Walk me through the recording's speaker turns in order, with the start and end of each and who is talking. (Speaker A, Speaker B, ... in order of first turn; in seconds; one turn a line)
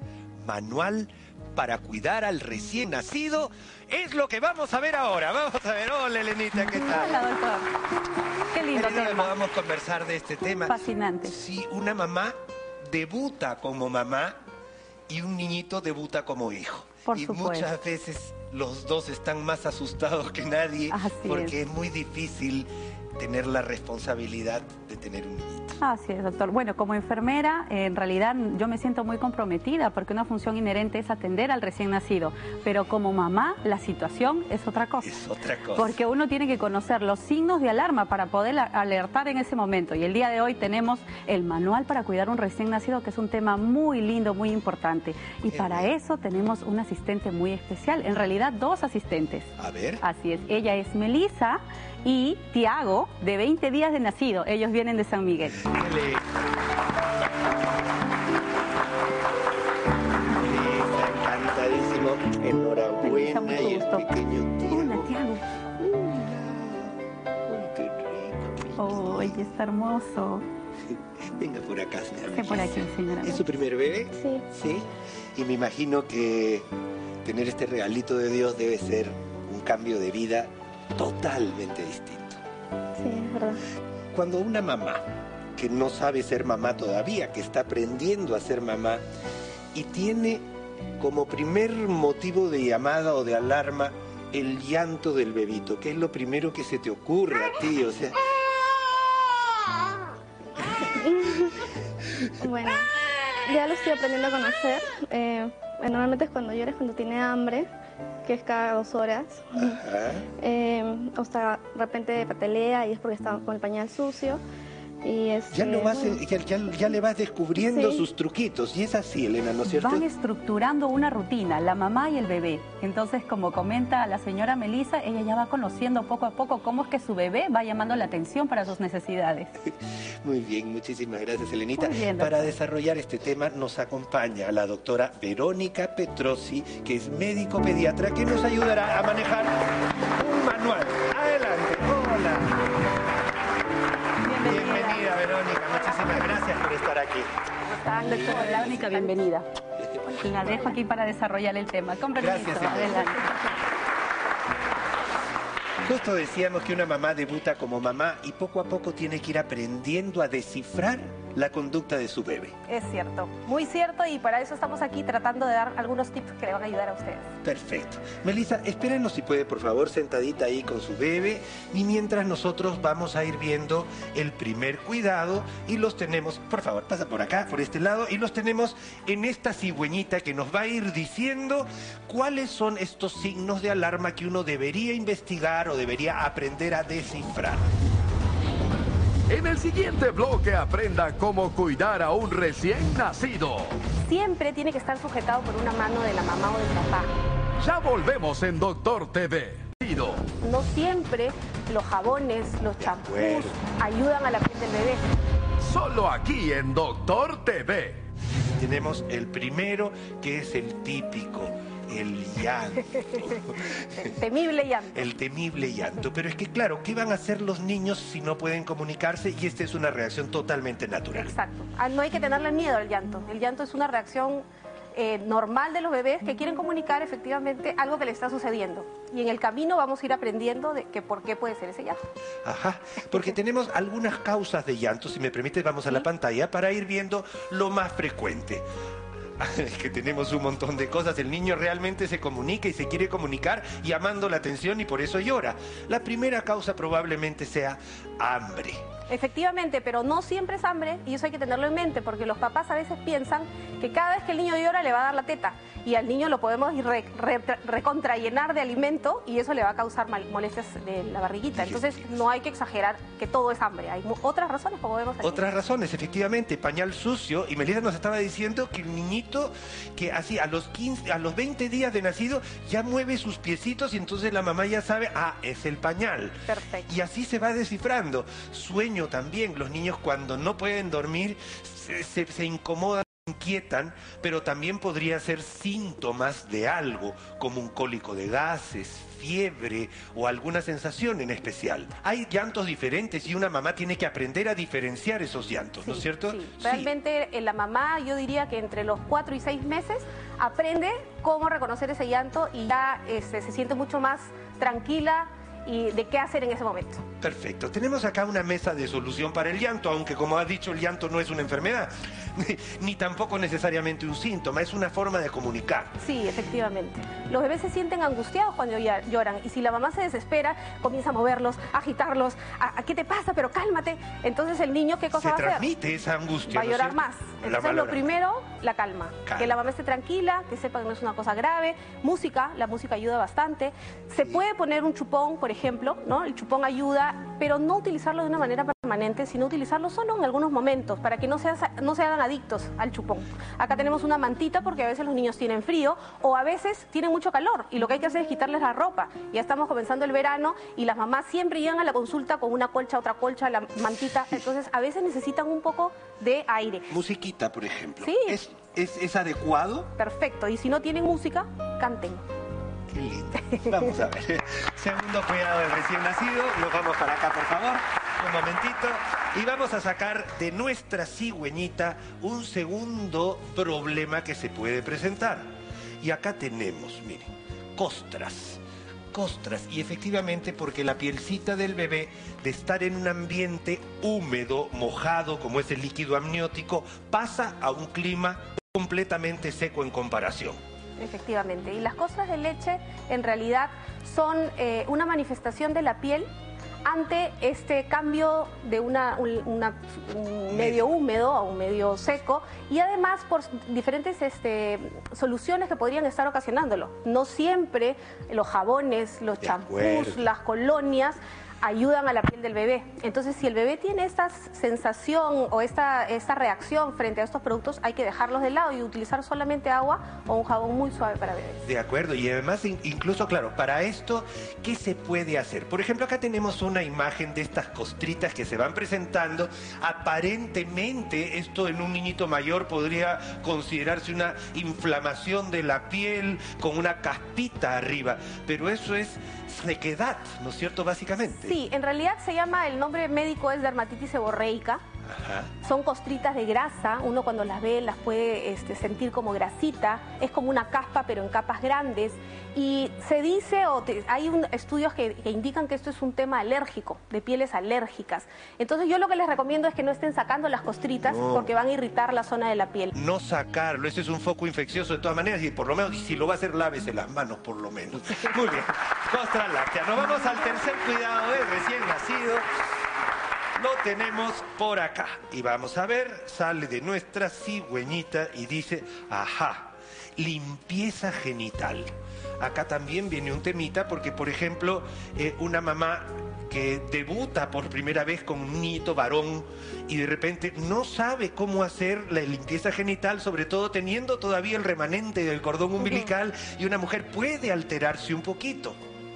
Speaker A: 0.4-7.3
Speaker B: 6.7-7.7
Speaker B: 8.5-9.3
Speaker A: 8.7-14.4
Speaker B: 10.7-11.3
Speaker A: 15.1-25.8
Speaker B: 17.1-17.7
Speaker B: 20.9-21.5
Speaker B: 25.8-35.1
Speaker A: 35.0-36.0
Speaker B: 35.7-55.7
Speaker A: 45.5-45.9
Speaker A: 49.6-50.0
Speaker A: 55.6-56.2
Speaker A: 60.3-65.1
Speaker B: 63.0-64.1
Speaker B: 64.7-65.5
Speaker A: 65.8-69.4
Speaker B: 68.8-70.5
Speaker A: 70.9-76.7
Speaker B: 72.3-73.4
Speaker C: 74.2-74.4
Speaker A: 77.2-82.4
Speaker C: 83.0-83.6
Speaker A: 84.1-85.0
Speaker A: 85.5-89.0
Speaker A: 89.7-90.4
Speaker A: 91.0-98.2
Speaker C: 100.8-101.5
Speaker C: 102.4-102.9
Speaker C: 103.4-107.7
Speaker C: 108.2-109.8
Speaker A: 109.5-110.2
Speaker C: 110.4-114.4
Speaker C: 115.0-116.2
Speaker A: 115.5-120.0
Speaker C: 117.6-118.0
Speaker B: 119.7-129.5
Speaker A: 130.2-142.7
Speaker B: 131.8-132.5
Speaker B: 144.2-145.2
Speaker A: 144.3-147.3
Speaker D: 145.5-146.3
Speaker D: 147.6-149.3
Speaker B: 148.1-149.4
Speaker A: 148.1-148.7
Speaker A: 149.8-150.7
Speaker B: 150.2-153.3
Speaker A: 152.2-153.1
Speaker A: 155.8-162.5
Speaker D: 162.7-167.3
Speaker A: 167.4-187.7
Speaker E: 189.3-193.7
Speaker D: 194.0-197.1
Speaker E: 197.6-200.2
Speaker D: 200.4-205.0
Speaker A: 202.8-203.6
Speaker E: 205.6-208.0
Speaker A: 208.5-214.1
Speaker D: 214.0-215.1
Speaker A: 214.9-221.3
Speaker D: 221.1-232.0
Speaker A: 232.4-238.6
Speaker A: 239.4-248.8
Speaker D: 249.1-265.5
Speaker A: 261.5-262.1
Speaker A: 265.2-296.9
Speaker D: 276.5-276.9
Speaker D: 295.8-307.0
Speaker A: 307.2-315.9
Speaker D: 316.0-325.7
Speaker A: 325.1-328.1
Speaker D: 326.5-356.9
Speaker A: 329.2-329.5
Speaker A: 356.9-359.9
Speaker D: 358.0-358.4
Speaker D: 360.0-362.2
Speaker A: 362.9-375.5
Speaker A: 376.0-378.6
Speaker A: 379.1-390.6
Speaker D: 391.0-396.3
Speaker D: 396.8-421.6
Speaker A: 400.5-400.9
Speaker A: 409.4-410.3
Speaker A: 421.6-441.6
Speaker D: 441.4-444.8
Speaker A: 445.1-445.5
Speaker D: 445.6-462.9
Speaker A: 461.0-461.5
Speaker A: 462.9-472.4
Speaker A: 473.6-498.8
Speaker D: 495.8-496.1